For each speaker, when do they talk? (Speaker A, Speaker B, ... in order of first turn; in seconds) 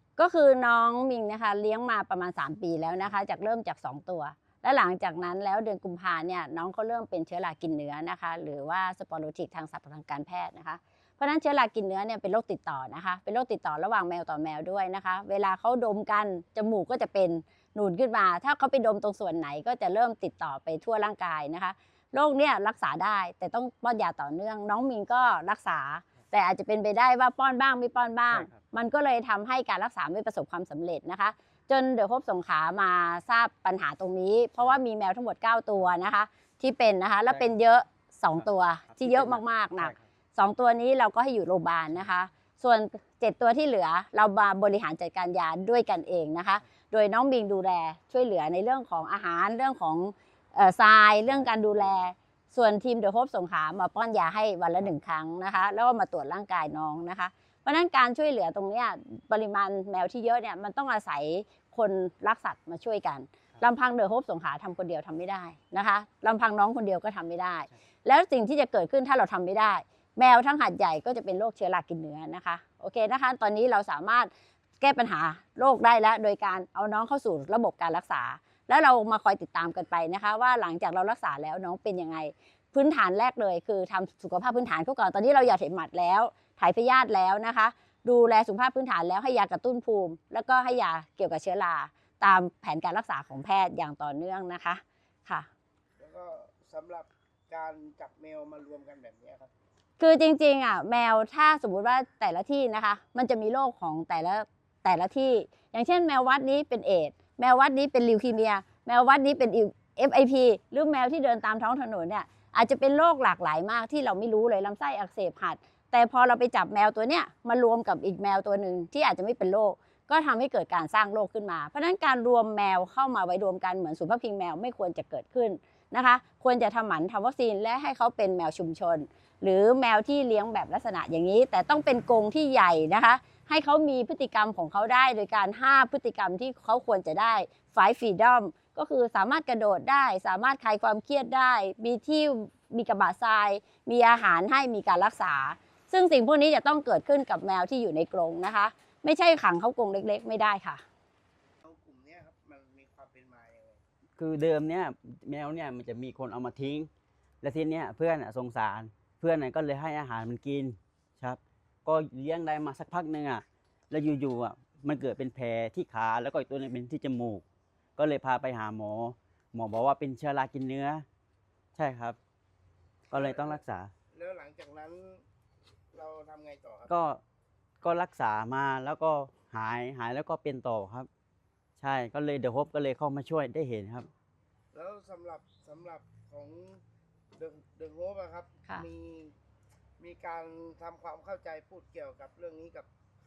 Speaker A: 0.2-95.5, 100.0-150.8
Speaker B: 28.3-28.6, 38.4-40.0, 154.2-156.9, 157.4-167.4, 168.0-171.1, 171.8-172.2, 173.1-173.9, 176.9-177.2, 177.8-181.1, 181.8-184.1
Speaker C: 96.0-99.5, 151.6-153.8, 173.1-175.2, 175.9-176.9, 184.7-186.8, 187.4-189.3, 190.0-192.9